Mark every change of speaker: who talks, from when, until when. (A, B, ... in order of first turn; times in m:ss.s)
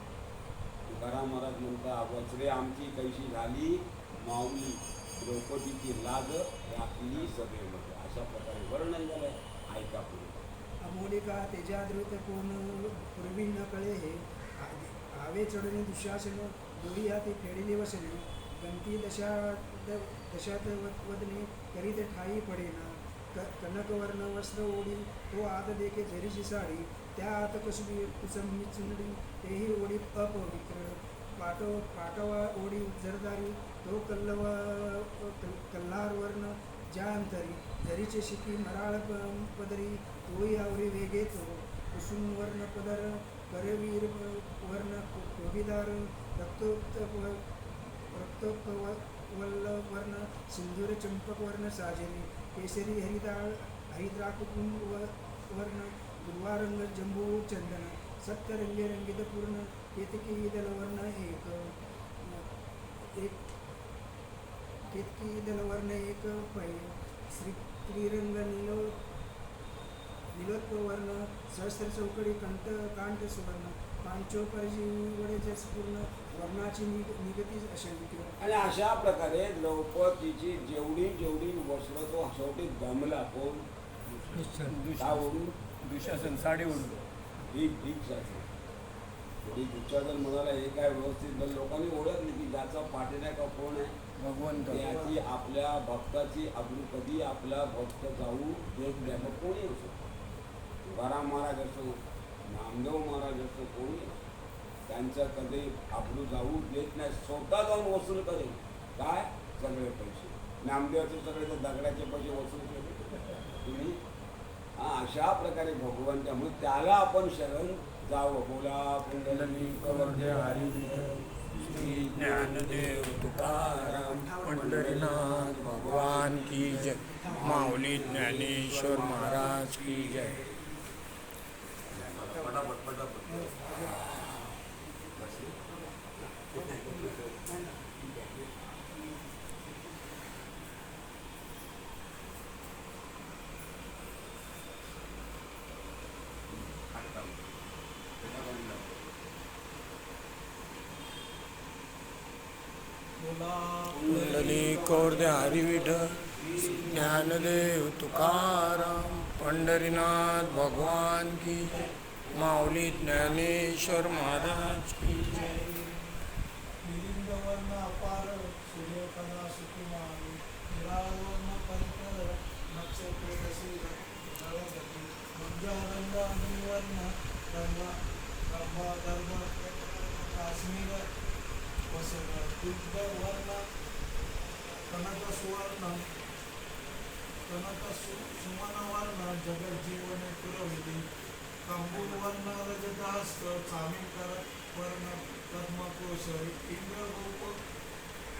0:00.9-0:10.4 A
0:10.8-0:47.4 B
0:48.1-1:02.5 B
1:03.1-1:03.5 B
1:04.9-1:08.9 B
1:10.4-1:18.4 B
1:18.4-1:25.5 A
1:24.3-1:24.8 C
1:24.6-1:27.0 D
1:27.4-1:28.5 A
1:29.4-1:33.9 A
1:34.2-1:35.1 D
1:34.6-1:40.0 A
1:40.9-1:42.0 A
1:42.5-1:44.1 A
1:44.9-1:54.0 A
1:54.8-2:00.8 A
1:59.2-2:10.4 D
2:01.5-2:10.4 A
2:11.9-2:14.5 A
2:13.3-2:14.0 C
2:15.1-2:18.8 A
2:26.5-2:27.5 A
2:28.2-2:29.1 A
2:33.2-2:34.7 C
2:33.9-2:39.2 A
2:34.1-2:45.5 D
2:39.8-2:40.8 A
2:42.2-2:44.7 A
2:45.3-2:46.0 C
2:46.8-2:57.9 C
2:58.5-3:01.0 C
3:01.9-3:03.6 C
3:04.9-3:06.1 C
3:07.5-3:11.0 C
3:11.7-3:17.5 C